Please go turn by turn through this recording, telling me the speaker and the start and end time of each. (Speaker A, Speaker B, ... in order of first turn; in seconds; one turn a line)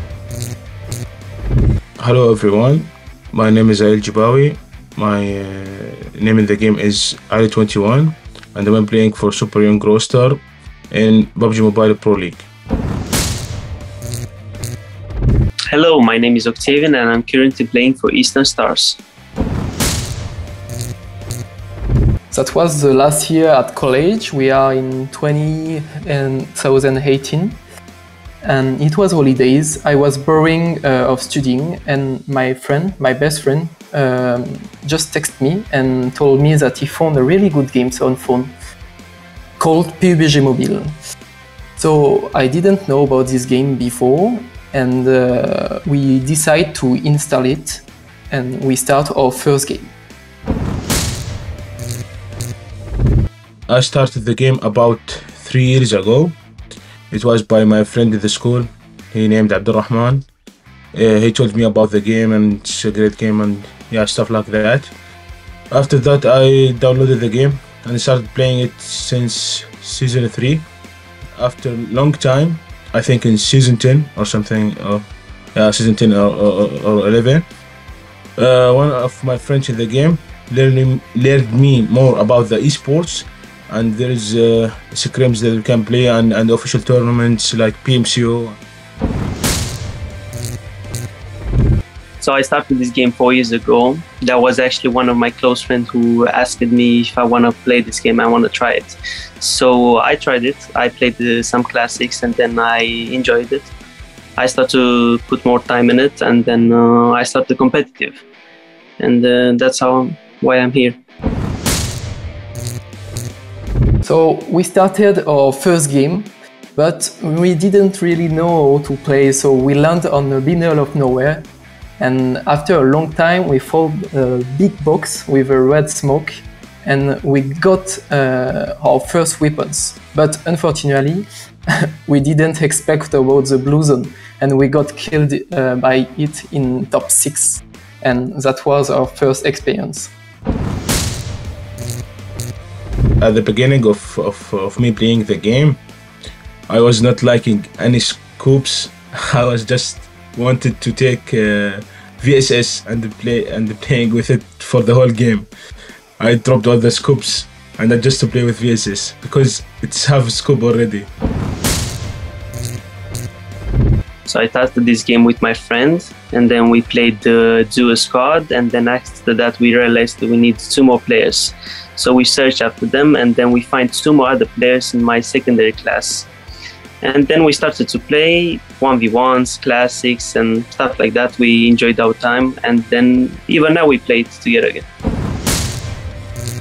Speaker A: 2.0-12.4
Speaker B: 15.7-19.0
Speaker C: 22.3-27.6
Speaker C: 28.4-38.5
Speaker C: 39.6-40.9
Speaker C: 41.8-49.9
Speaker A: 53.7-56.4
Speaker A: 57.1-60.3
Speaker A: 60.9-64.9
Speaker A: 65.7-70.7
Speaker A: 71.4-77.5
Speaker A: 78.4-88.6
Speaker B: 92.2-103.7
Speaker B: 104.4-108.2
Speaker B: 109.0-111.0
Speaker C: 114.0-121.4
Speaker C: 122.0-131.2
Speaker C: 132.1-140.1
Speaker A: 143.2-145.8
Speaker A: 146.7-155.5
Speaker A: 156.2-161.1
Speaker B: 164.3-176.3
Speaker B: 177.0-184.8